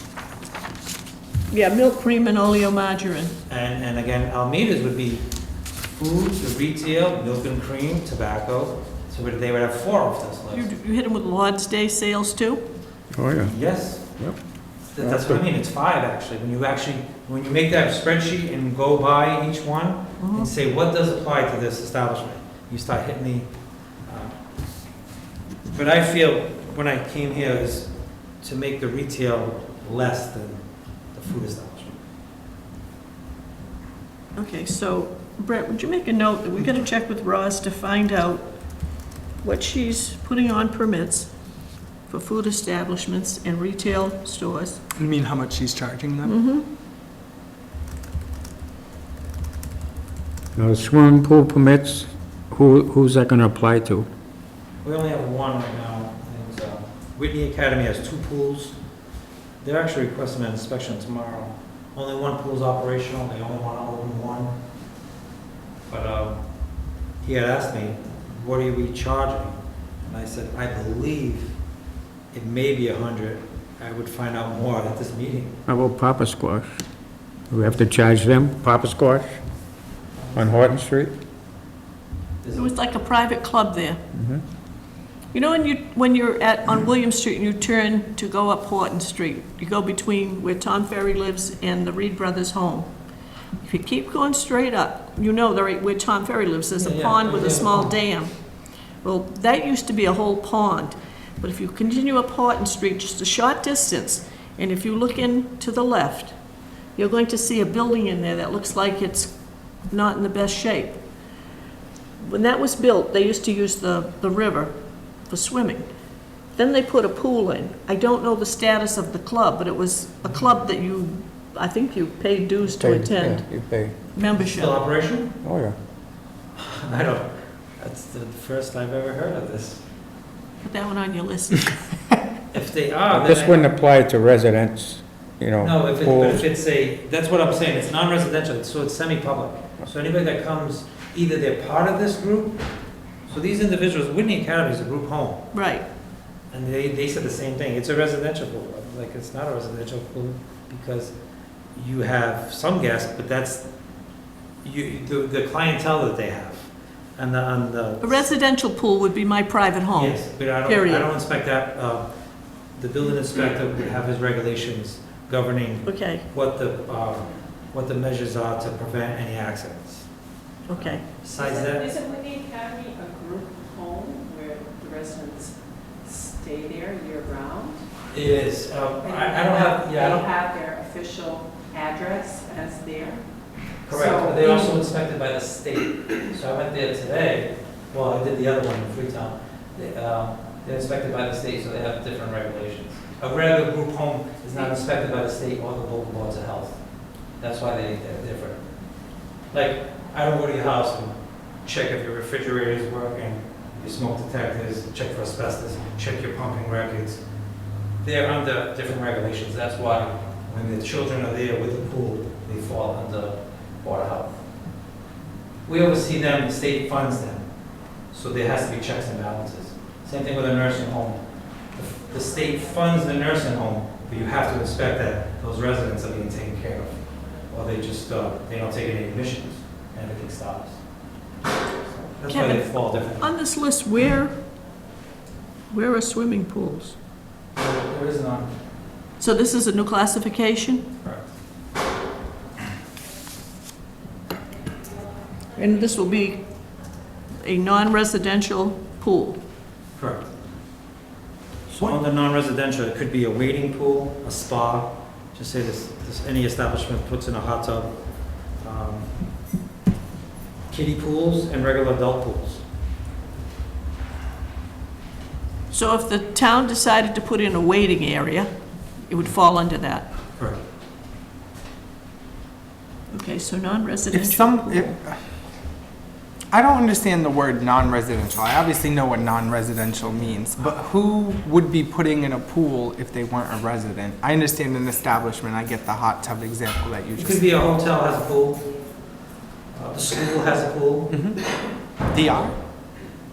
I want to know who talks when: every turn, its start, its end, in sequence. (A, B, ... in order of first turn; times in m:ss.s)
0:01.5-0:03.3 A
0:03.5-0:05.2 B
0:05.9-0:10.6 B
0:10.5-0:12.6 A
0:13.1-0:14.4 C
0:13.4-0:14.2 B
0:14.9-0:23.5 B
0:15.0-0:15.4 C
0:20.2-0:20.5 A
0:24.0-0:24.4 B
0:25.7-0:31.9 B
0:34.4-0:38.4 A
0:39.4-0:41.3 A
0:42.1-0:44.8 A
0:44.9-0:46.4 D
0:46.2-0:46.6 A
0:50.5-0:54.1 C
0:54.8-0:58.8 B
0:59.6-1:04.5 B
1:05.9-1:06.4 B
1:07.2-1:11.5 B
1:12.3-1:15.5 B
1:15.7-1:16.8 C
1:17.5-1:19.4 C
1:20.2-1:20.7 B
1:20.3-1:21.1 C
1:22.4-1:22.7 B
1:22.5-1:24.0 A
1:24.1-1:24.4 C
1:25.3-1:32.9 A
1:33.6-1:38.3 A
1:36.8-1:37.9 B
1:39.0-1:46.3 A
1:47.0-1:49.3 A
1:49.9-1:51.0 A
1:52.2-1:54.7 A
1:55.3-1:55.9 A
1:56.5-2:04.8 A
2:02.6-2:04.0 C
2:04.3-2:05.3 B
2:05.4-2:05.8 C
2:06.6-2:09.8 B
2:10.6-2:11.7 A
2:12.5-2:13.7 B
2:13.1-2:16.4 C
2:15.6-2:22.6 B
2:23.3-2:25.5 B
2:25.5-2:25.8 A
2:26.5-2:31.1 B
2:31.7-2:33.6 B
2:34.6-2:38.2 B
2:38.0-2:41.1 A
2:39.9-2:42.1 B
2:42.8-2:50.1 B
2:45.8-2:46.2 A
2:50.7-2:51.0 A
2:50.7-2:51.9 B
2:51.5-2:55.5 E
2:56.0-2:57.7 E
2:58.1-3:00.3 B
2:59.1-3:03.2 E
3:03.8-3:16.8 B
3:03.9-3:04.6 E
3:17.4-3:18.7 B
3:19.4-3:27.2 B
3:28.0-3:34.4 B
3:35.7-3:37.4 B
3:38.1-3:41.2 B
3:41.7-3:50.8 B
3:52.1-3:53.3 B
3:52.3-3:54.3 A
3:55.7-3:56.9 A
3:57.5-3:58.5 B
3:59.2-4:00.9 A
4:01.0-4:01.3 B
4:05.6-4:06.4 A
4:07.4-4:09.4 A
4:10.0-4:10.3 B
4:11.7-4:17.9 B
4:18.6-4:19.1 B
4:20.7-4:22.6 B
4:25.7-4:28.5 A
4:29.1-4:30.1 A
4:33.1-4:34.9 A
4:34.1-4:35.2 D
4:36.5-4:47.4 D
4:47.2-4:48.6 B
4:49.7-4:51.2 B
4:51.1-4:51.4 D
4:52.1-4:52.5 D